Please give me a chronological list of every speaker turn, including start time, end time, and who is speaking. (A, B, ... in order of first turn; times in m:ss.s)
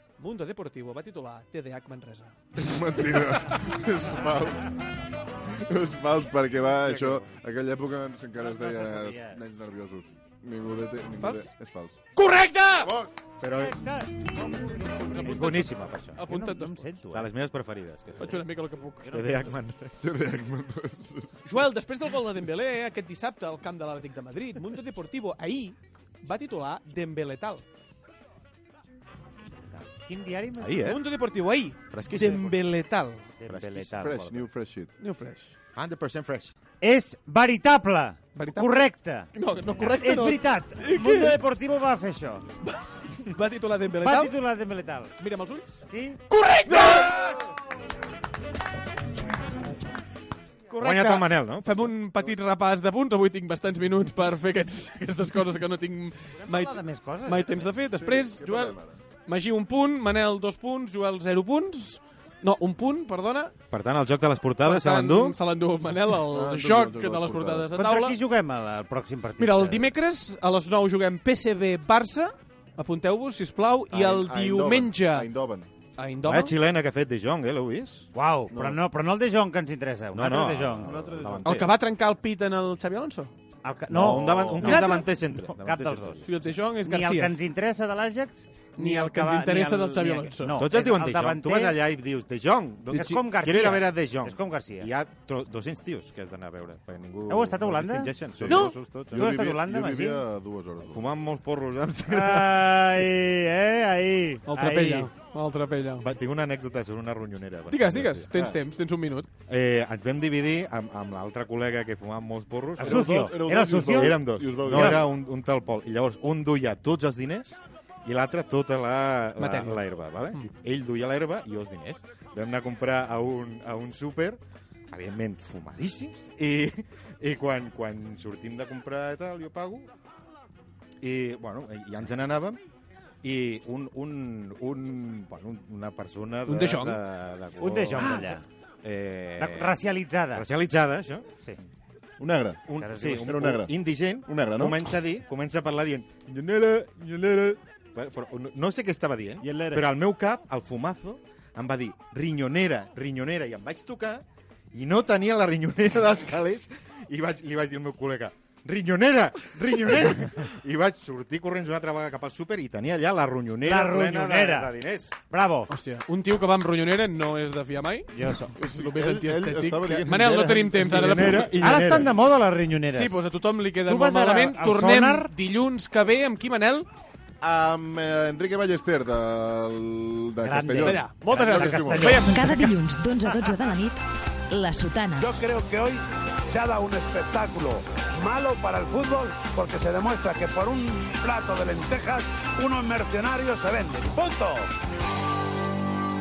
0:00.2-0:02.3 A
0:02.6-0:04.8 B
0:05.6-0:12.0 B
0:08.4-0:09.4 C
0:11.2-0:11.5 A
0:12.1-0:12.9 A
0:12.8-0:13.1 B
0:13.4-0:13.8 D
0:13.4-0:15.7 C
0:15.0-0:16.8 A
0:15.2-0:16.2 D
0:16.3-0:17.3 C
0:17.1-0:18.5 D
0:18.2-0:19.1 A
0:19.0-0:19.5 C
0:19.1-0:20.0 D
0:20.0-0:21.4 B
0:21.4-0:27.6 A
0:29.7-0:30.9 C
0:30.6-0:31.0 D
0:30.8-0:33.3 A
0:31.9-0:32.6 D
0:33.4-0:34.4 C
0:33.5-0:34.1 D
0:34.0-0:34.9 B
0:35.0-0:35.5 A
0:35.8-0:36.5 D
0:36.8-0:39.3 C
0:38.3-0:41.4 A
0:39.8-0:42.4 C
0:42.6-0:44.3 A
0:44.0-0:45.1 C
0:45.2-0:47.4 A
0:45.9-0:46.2 C
0:50.7-0:58.7 A
0:50.7-0:51.9 D
0:56.4-0:57.6 C
0:57.8-0:59.0 B
0:59.3-1:03.5 A
1:03.7-1:05.4 D
1:04.6-1:08.1 A
1:06.2-1:07.7 B
1:07.7-1:09.9 C
1:09.4-1:15.3 A
1:13.9-1:15.7 B
1:16.0-1:16.6 A
1:16.3-1:18.1 D
1:18.1-1:21.0 C
1:18.5-1:18.8 B
1:20.1-1:21.7 D
1:20.8-1:21.6 B
1:21.4-1:23.3 A
1:23.6-1:26.2 C
1:23.9-1:24.7 B
1:23.9-1:26.3 D
1:24.6-1:25.0 A
1:26.2-1:27.4 A
1:26.8-1:31.8 C
1:28.8-1:30.6 A
1:30.6-1:39.3 D
1:32.9-1:34.9 C
1:37.3-1:38.1 C
1:38.4-1:41.0 B
1:38.5-1:38.8 A
1:39.1-1:40.2 C
1:40.8-1:42.9 D
1:42.1-1:45.1 C
1:44.5-1:46.1 A
1:46.0-1:48.3 D
1:47.7-1:49.3 A
1:49.5-1:53.2 D
1:52.8-1:55.0 C
1:52.8-1:55.0 B
1:53.9-2:09.9 D
1:59.4-2:00.5 A
2:11.0-2:12.6 D
2:13.2-2:19.7 D
2:16.4-2:17.0 A
2:17.6-2:18.4 C
2:18.0-2:18.2 A
2:19.4-2:20.4 C
2:20.3-2:21.3 D
2:22.2-2:23.7 B
2:22.7-2:45.1 D
2:22.8-2:23.4 C
2:24.3-2:24.9 B
2:29.4-2:29.9 C
2:43.6-2:44.7 C
2:45.3-2:45.7 C
2:45.7-2:51.6 A
2:48.1-2:48.5 C
2:48.6-2:51.0 B
2:50.8-2:52.1 D
2:51.6-2:53.2 C
2:52.9-2:56.9 A
2:53.9-2:55.3 C
2:57.4-3:02.2 B
3:00.4-3:02.8 C
3:00.8-3:02.4 A
3:02.2-3:04.0 E
3:04.5-3:05.3 E
3:05.2-3:14.7 F